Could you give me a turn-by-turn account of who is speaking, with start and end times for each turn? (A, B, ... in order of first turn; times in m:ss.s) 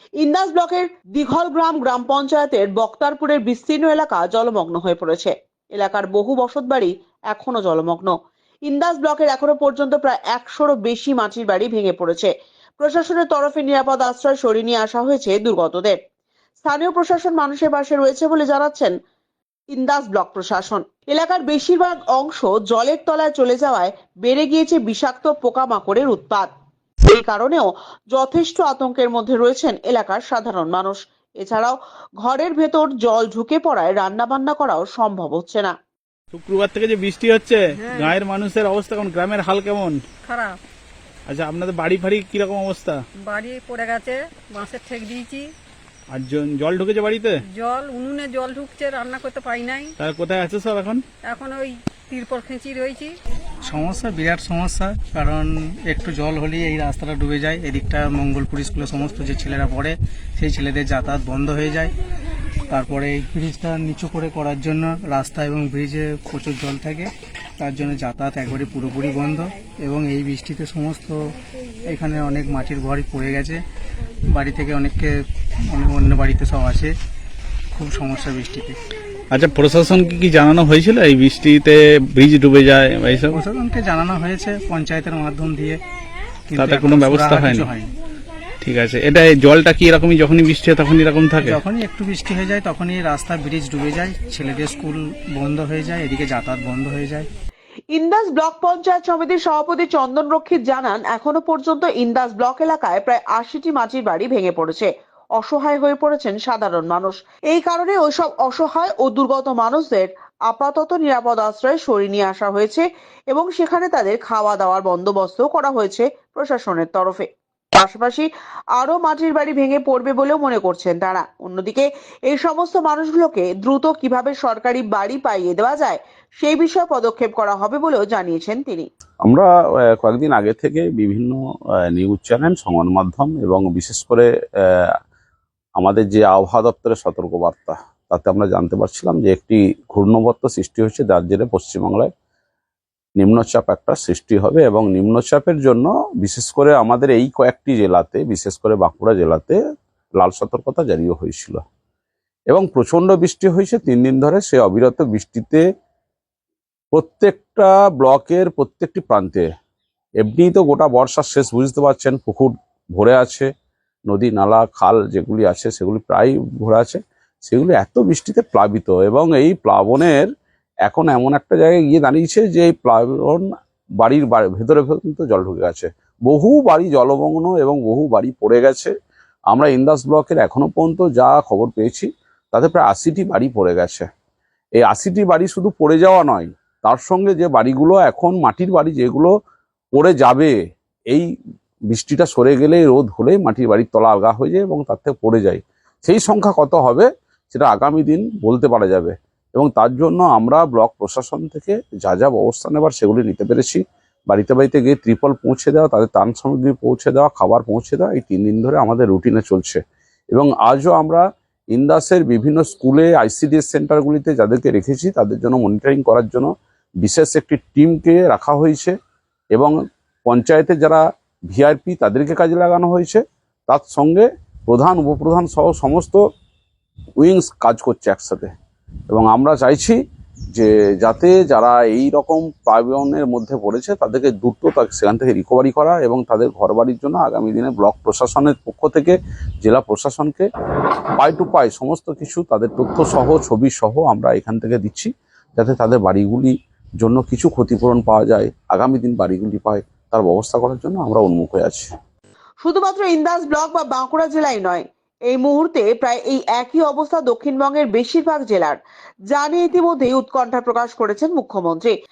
0:00.2-0:08.1 A
0:08.6-0:16.0 A
0:16.6-0:18.9 A
0:19.7-0:26.5 A
0:27.1-0:35.8 A
0:36.3-0:40.0 B
0:37.8-0:38.1 C
0:40.2-0:40.6 C
0:41.3-0:43.0 B
0:43.2-0:45.5 C
0:46.1-0:47.4 B
0:47.5-0:49.9 C
0:50.0-0:51.0 B
0:51.2-0:53.1 C
0:53.6-1:01.9 D
1:02.7-1:11.3 D
1:11.8-1:13.6 D
1:14.3-1:16.9 D
1:17.7-1:18.8 D
1:19.3-1:23.4 B
1:23.3-1:25.8 D
1:26.5-1:27.9 D
1:26.5-1:27.7 B
1:28.6-1:31.6 B
1:31.4-1:37.3 D
1:37.9-2:08.9 A
2:09.2-2:15.0 E
2:15.8-2:22.1 E
2:23.2-2:29.6 E
2:30.2-2:31.6 E
2:32.5-2:35.6 E
2:36.9-2:39.5 E
2:40.2-2:43.5 E
2:44.1-2:50.3 E
2:50.8-2:53.4 E
2:54.0-2:58.9 E
2:59.5-3:04.1 E
3:04.8-3:09.3 E
3:10.0-3:10.5 E
3:11.9-3:29.8 E
3:30.3-3:36.5 E
3:37.0-3:38.9 E
3:40.2-3:46.2 E
3:47.2-3:48.5 E
3:49.1-3:50.0 E
3:50.5-4:00.5 E
4:01.2-4:11.9 E
4:12.6-4:18.8 A
4:19.3-4:21.9 A